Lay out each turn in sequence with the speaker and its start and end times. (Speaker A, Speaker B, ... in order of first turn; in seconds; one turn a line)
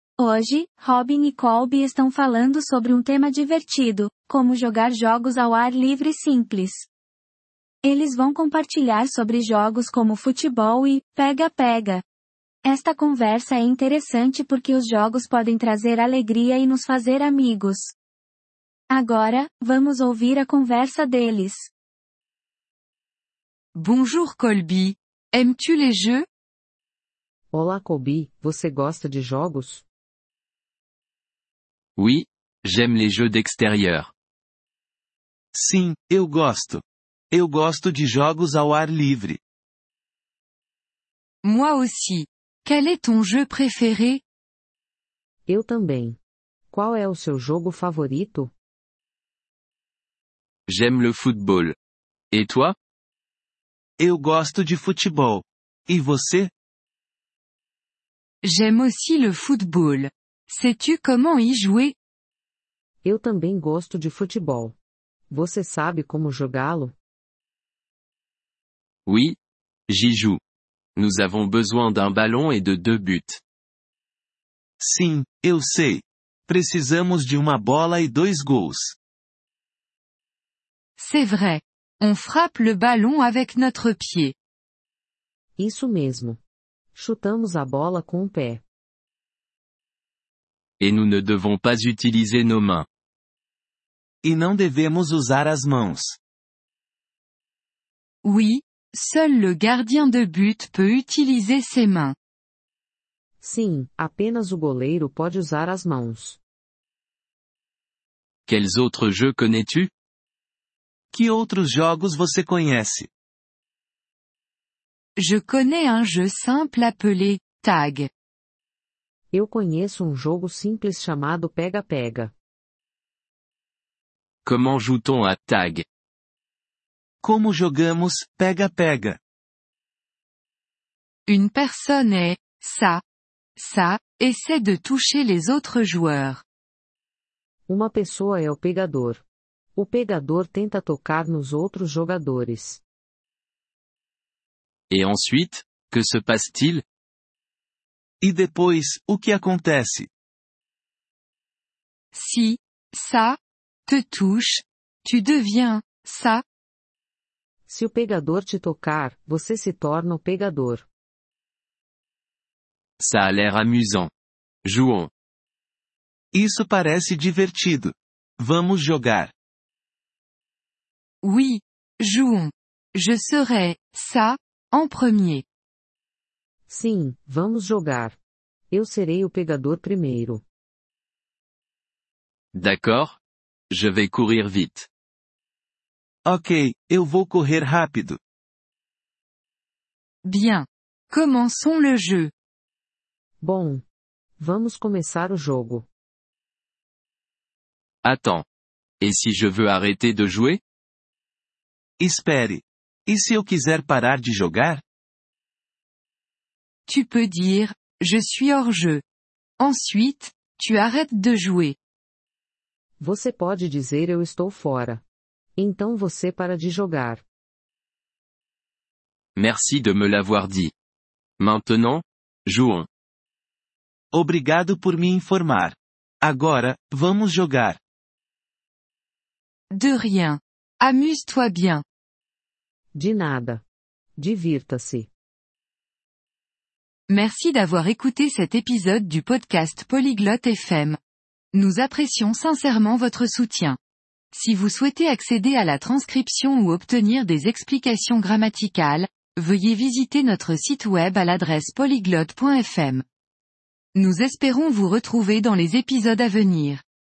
Speaker A: 0.2-6.9
Speaker A: 7.8-12.0
Speaker A: 12.7-17.9
Speaker A: 18.9-21.7
Speaker B: 23.8-26.2
Speaker C: 27.5-29.9
Speaker D: 32.0-34.1
Speaker E: 35.5-39.4
Speaker B: 41.4-44.2
Speaker C: 45.5-46.2
Speaker C: 46.7-48.5
Speaker D: 50.7-51.8
Speaker D: 52.3-52.8
Speaker E: 54.0-56.5
Speaker B: 58.4-61.9
Speaker C: 63.0-64.8
Speaker C: 65.3-67.0
Speaker D: 69.1-69.4
Speaker D: 69.9-70.4
Speaker D: 71.0-73.4
Speaker E: 74.8-79.0
Speaker B: 81.0-84.3
Speaker C: 85.6-86.4
Speaker C: 86.9-88.6
Speaker D: 90.8-92.9
Speaker E: 94.2-96.2
Speaker B: 98.2-102.2
Speaker C: 103.4-106.4
Speaker D: 108.5-109.9
Speaker E: 111.1-113.1
Speaker B: 115.2-118.1
Speaker C: 119.3-122.3
Speaker D: 124.4-125.8
Speaker E: 127.2-129.2
Speaker B: 131.3-133.0
Speaker B: 133.6-136.4
Speaker C: 137.7-139.2
Speaker C: 139.8-142.8
Speaker D: 144.9-146.8
Speaker E: 148.2-150.1
Speaker B: 152.1-156.4
Speaker C: 157.7-160.9
Speaker D: 163.0-164.1
Speaker D: 164.7-165.1
Speaker E: 166.3-169.3
Speaker B: 171.2-175.4
Speaker C: 176.7-178.2
Speaker C: 178.7-180.4
Speaker D: 182.5-183.2
Speaker D: 183.7-184.9
Speaker E: 186.2-188.2
Speaker B: 190.2-192.3
Speaker C: 193.4-193.8
Speaker C: 194.4-195.9
Speaker D: 198.0-198.5
Speaker D: 199.0-200.6
Speaker E: 202.0-204.8
Speaker B: 206.9-209.0
Speaker B: 209.6-211.8
Speaker C: 213.0-215.0
Speaker C: 215.6-217.2
Speaker D: 219.4-220.7
Speaker D: 221.4-222.9
Speaker E: 224.1-227.8
Speaker B: 229.7-231.8
Speaker C: 232.9-233.6
Speaker C: 234.2-235.1
Speaker B: 237.1-241.0
Speaker B: 241.5-243.8
Speaker B: 244.3-253.0
Speaker B: 253.9-256.8